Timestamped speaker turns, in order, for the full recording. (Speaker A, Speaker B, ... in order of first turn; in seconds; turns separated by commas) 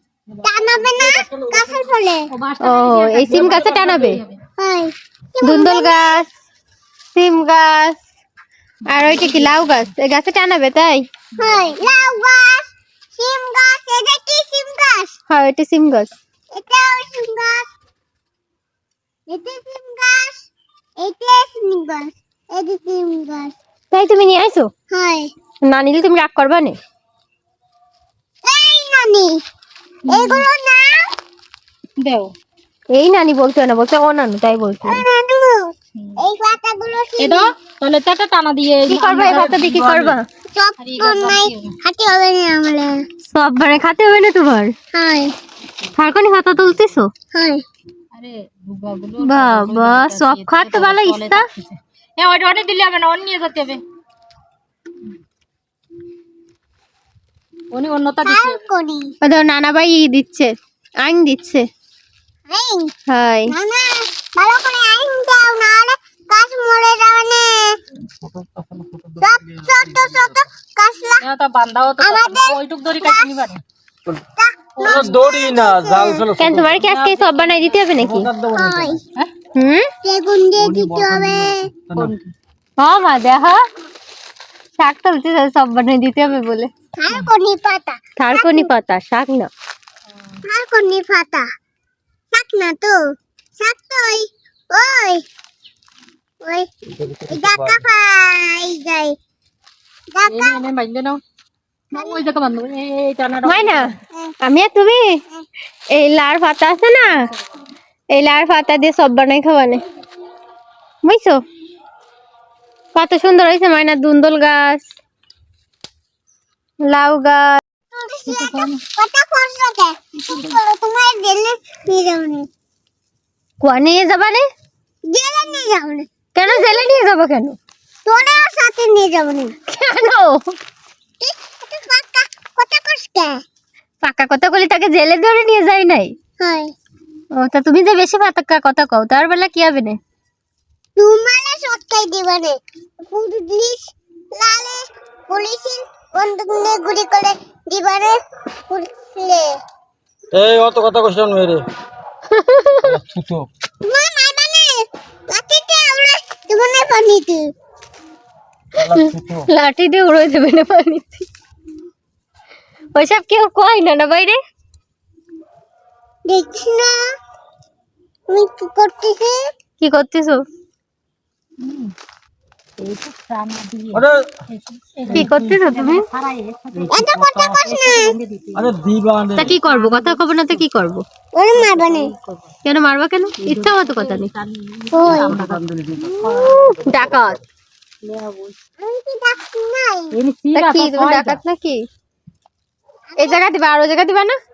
Speaker A: 0.3-1.7, Speaker B: 0.4-2.2, Speaker A: 2.3-4.4, Speaker C: 2.6-4.2, Speaker B: 4.6-6.2, Speaker C: 5.4-6.3, Speaker C: 7.1-8.0, Speaker C: 8.9-11.0, Speaker A: 8.9-9.7, Speaker A: 11.3-12.0, Speaker B: 11.4-15.1, Speaker C: 15.3-16.1, Speaker B: 16.5-17.7, Speaker B: 19.3-20.5, Speaker B: 21.0-23.5, Speaker C: 23.9-24.7, Speaker B: 24.9-25.3, Speaker C: 25.6-26.8, Speaker B: 28.4-29.4, Speaker A: 30.1-30.5, Speaker B: 30.1-31.1, Speaker A: 32.0-32.3, Speaker C: 32.9-35.0, Speaker B: 34.9-37.5, Speaker A: 36.0-36.2, Speaker A: 37.2-40.2, Speaker C: 38.9-40.2, Speaker B: 40.5-43.0, Speaker A: 40.8-41.7, Speaker C: 43.2-44.7, Speaker B: 44.9-45.3, Speaker C: 45.9-47.1, Speaker B: 47.3-47.6, Speaker A: 48.1-53.8, Speaker C: 49.2-51.5, Speaker A: 57.7-58.6, Speaker B: 58.2-59.1, Speaker C: 59.2-61.6, Speaker B: 62.5-62.9, Speaker C: 63.1-63.5, Speaker B: 63.5-67.8, Speaker D: 68.2-70.4, Speaker B: 69.2-71.2, Speaker A: 71.2-73.6, Speaker B: 72.0-73.4, Speaker B: 74.4-76.3, Speaker A: 74.8-75.2, Speaker D: 74.8-76.8, Speaker C: 76.4-78.3, Speaker A: 76.8-78.0, Speaker D: 78.0-79.0, Speaker B: 78.5-79.0, Speaker C: 79.5-79.9, Speaker B: 80.0-81.7, Speaker D: 80.6-82.1, Speaker A: 81.9-82.3, Speaker C: 82.8-83.6, Speaker C: 84.8-86.7, Speaker B: 87.0-88.7, Speaker C: 88.2-89.5, Speaker B: 90.4-91.5, Speaker B: 92.3-93.0, Speaker B: 93.6-95.2, Speaker B: 96.4-96.7, Speaker D: 97.0-97.8, Speaker B: 97.3-99.1, Speaker B: 100.1-100.6, Speaker A: 100.3-101.2, Speaker A: 101.9-104.0, Speaker B: 101.9-102.2, Speaker C: 103.5-103.9, Speaker C: 104.4-105.2, Speaker C: 105.9-107.3, Speaker C: 108.1-109.8, Speaker C: 111.0-111.4, Speaker C: 112.9-114.9, Speaker C: 116.8-117.6, Speaker B: 117.9-122.5, Speaker A: 118.2-118.8, Speaker A: 120.3-120.5, Speaker C: 123.6-124.4, Speaker B: 125.1-127.0, Speaker C: 126.3-127.6, Speaker B: 128.0-129.6, Speaker C: 129.7-130.5, Speaker B: 131.2-133.4, Speaker C: 134.0-136.1, Speaker B: 136.4-136.7, Speaker C: 137.3-140.0, Speaker B: 140.9-149.6, Speaker D: 150.3-151.7, Speaker C: 152.3-153.0, Speaker D: 152.8-153.5, Speaker B: 153.8-157.5, Speaker D: 158.8-159.4, Speaker C: 158.8-161.2, Speaker C: 162.9-164.4, Speaker B: 166.3-167.0, Speaker B: 168.3-169.4, Speaker C: 169.8-170.4, Speaker A: 171.6-171.9, Speaker A: 172.8-177.0, Speaker D: 173.9-174.3, Speaker D: 175.1-175.4, Speaker C: 175.1-176.0, Speaker D: 176.7-177.6, Speaker B: 176.9-178.2, Speaker A: 177.6-178.7, Speaker D: 178.6-179.5, Speaker C: 179.3-181.0, Speaker A: 179.4-180.6, Speaker B: 181.3-182.1, Speaker A: 181.5-182.5, Speaker C: 182.6-184.3, Speaker A: 183.4-186.8, Speaker B: 184.9-185.4, Speaker D: 185.1-187.0, Speaker C: 186.1-187.4, Speaker A: 188.0-188.6, Speaker B: 188.8-190.2, Speaker A: 190.1-191.4, Speaker C: 190.5-191.8, Speaker B: 193.2-193.4, Speaker C: 193.2-194.4